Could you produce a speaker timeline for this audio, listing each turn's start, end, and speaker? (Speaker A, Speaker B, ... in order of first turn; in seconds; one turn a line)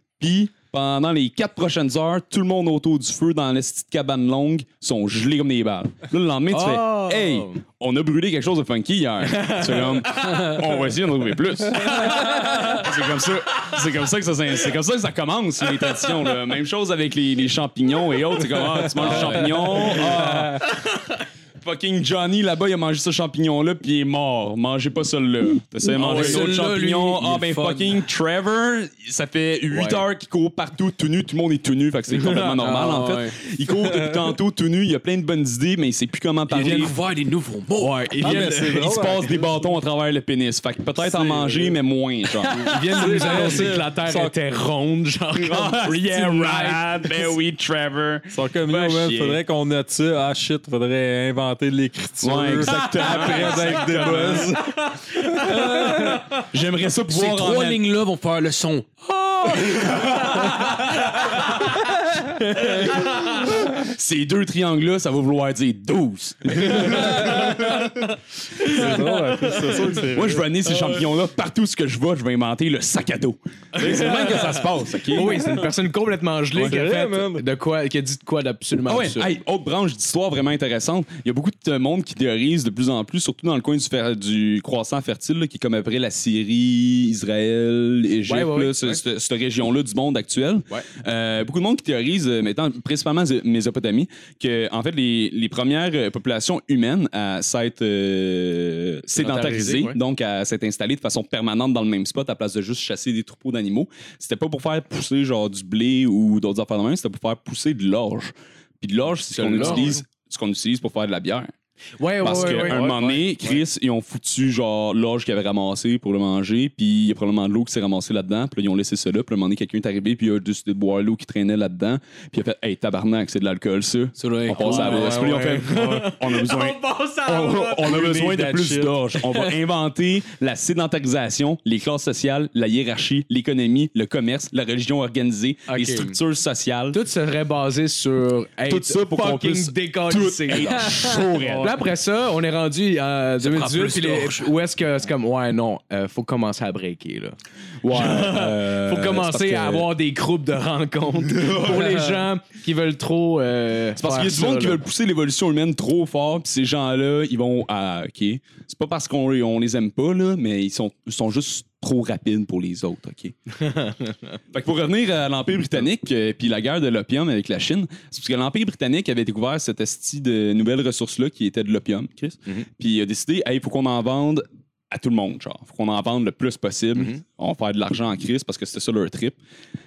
Speaker A: 0.2-20.8
Speaker B: 6.5-7.6
Speaker B: 9.3-10.4
Speaker C: 19.0-20.0
Speaker D: 19.1-19.9
Speaker A: 21.6-36.9
Speaker C: 25.9-28.0
Speaker D: 26.1-26.4
Speaker B: 29.7-30.0
Speaker B: 32.3-32.5
Speaker C: 32.6-33.4
Speaker D: 33.9-34.2
Speaker C: 36.5-38.0
Speaker B: 37.8-38.9
Speaker D: 38.2-39.7
Speaker A: 38.2-42.8
Speaker D: 41.0-41.8
Speaker B: 42.6-47.3
Speaker D: 42.8-44.3
Speaker A: 45.4-49.4
Speaker D: 48.3-55.5
Speaker A: 52.2-54.6
Speaker A: 55.4-57.8
Speaker C: 55.5-56.1
Speaker C: 57.1-59.1
Speaker A: 59.4-61.6
Speaker A: 62.8-68.0
Speaker B: 62.9-63.3
Speaker D: 68.6-70.8
Speaker A: 70.1-75.6
Speaker B: 73.8-79.3
Speaker D: 76.5-77.4
Speaker A: 78.9-111.5
Speaker B: 88.3-89.0
Speaker B: 99.1-100.0
Speaker B: 109.3-110.0
Speaker B: 112.0-113.1
Speaker A: 112.2-137.0
Speaker D: 112.3-113.5
Speaker C: 124.2-125.5
Speaker B: 124.6-128.0
Speaker D: 125.6-126.1
Speaker D: 127.8-128.9
Speaker B: 135.7-136.2
Speaker B: 136.9-147.4
Speaker A: 138.7-141.8
Speaker D: 141.4-141.8
Speaker C: 143.4-144.5
Speaker A: 147.8-149.9
Speaker B: 147.9-154.8
Speaker A: 151.3-152.0
Speaker C: 151.7-152.2
Speaker A: 154.0-163.3
Speaker B: 163.6-164.1
Speaker A: 164.5-179.4